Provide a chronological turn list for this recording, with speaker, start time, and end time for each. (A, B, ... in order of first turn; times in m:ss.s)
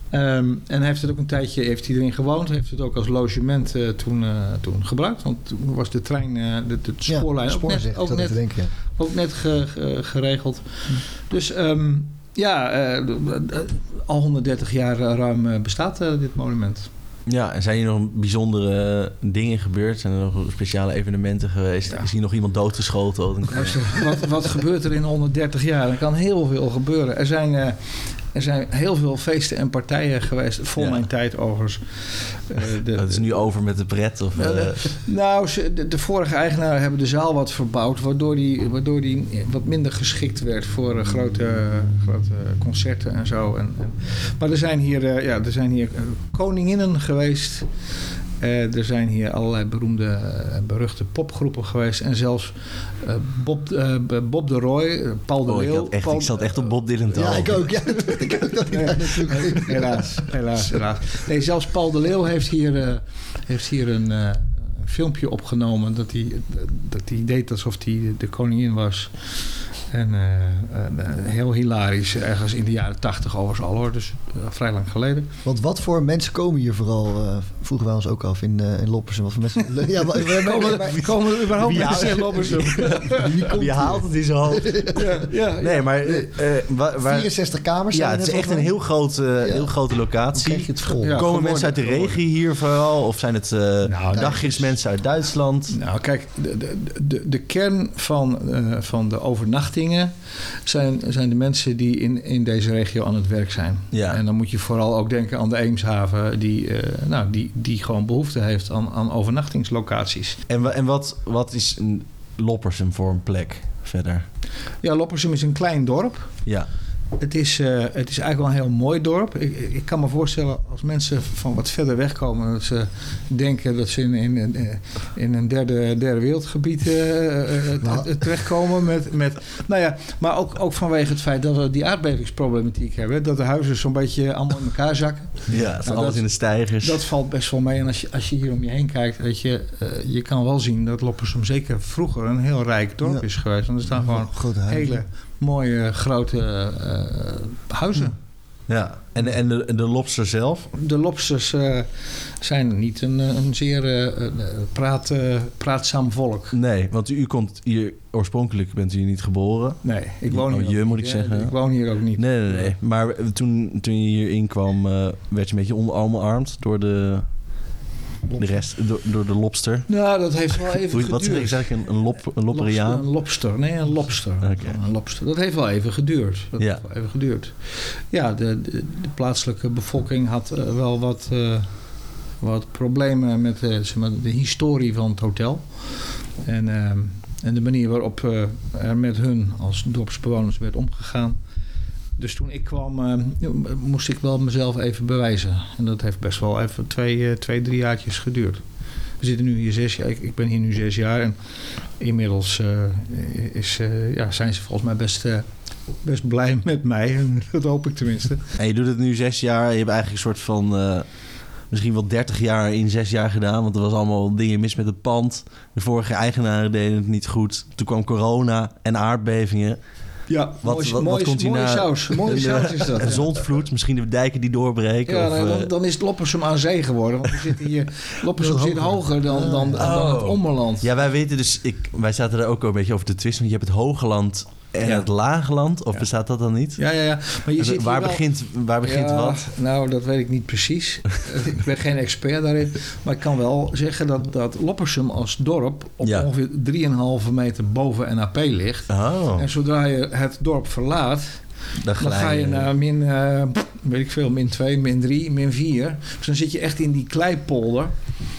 0:00.1-0:16.9 A
0:07.1-0:08.7 B
0:17.3-0:24.0 C
0:23.5-0:33.2 A
0:30.8-0:31.0 C
0:33.0-0:35.0 C
0:34.4-0:47.7 A
0:48.4-0:56.7 A
0:55.5-0:57.7 C
0:57.1-1:00.0 B
0:58.7-1:15.3 A
1:15.4-1:25.1 B
1:20.2-1:23.5 A
1:21.5-1:25.0 C
1:24.9-1:25.9 A
1:25.6-1:27.4 C
1:26.0-1:26.3 B
1:27.0-1:28.7 B
1:27.9-1:35.8 C
1:29.4-1:29.7 B
1:30.3-1:31.5 B
1:31.0-1:32.2 A
1:33.8-1:34.5 A
1:34.1-1:34.7 B
1:35.7-1:50.4 A
1:43.9-1:44.2 C
1:50.5-1:54.3 C
1:54.8-1:56.4 A
1:57.2-2:28.2 A
2:07.8-2:08.2 B
2:15.5-2:17.0 C
2:23.9-2:25.0 B
2:28.7-2:30.7 C
2:30.7-2:36.5 A
2:36.5-2:47.5 C
2:39.8-2:42.7 A
2:48.4-2:50.0 C
2:49.9-2:51.8 A
2:50.9-2:53.1 C
2:52.5-3:11.4 A
2:54.4-2:54.8 C
2:56.6-2:56.8 C
3:12.2-3:18.6 A
3:19.2-3:28.4 A
3:28.6-3:39.8 C
3:40.3-3:43.3 A
3:40.6-3:45.7 C
3:45.1-3:50.9 A
3:48.4-3:49.9 B
3:49.8-3:56.8 C
3:56.8-3:58.2 A
3:57.6-3:59.4 C
3:58.8-4:11.4 A
4:06.0-4:06.3 C
4:08.9-4:09.5 C
4:11.8-4:12.7 C
4:12.0-4:18.0 A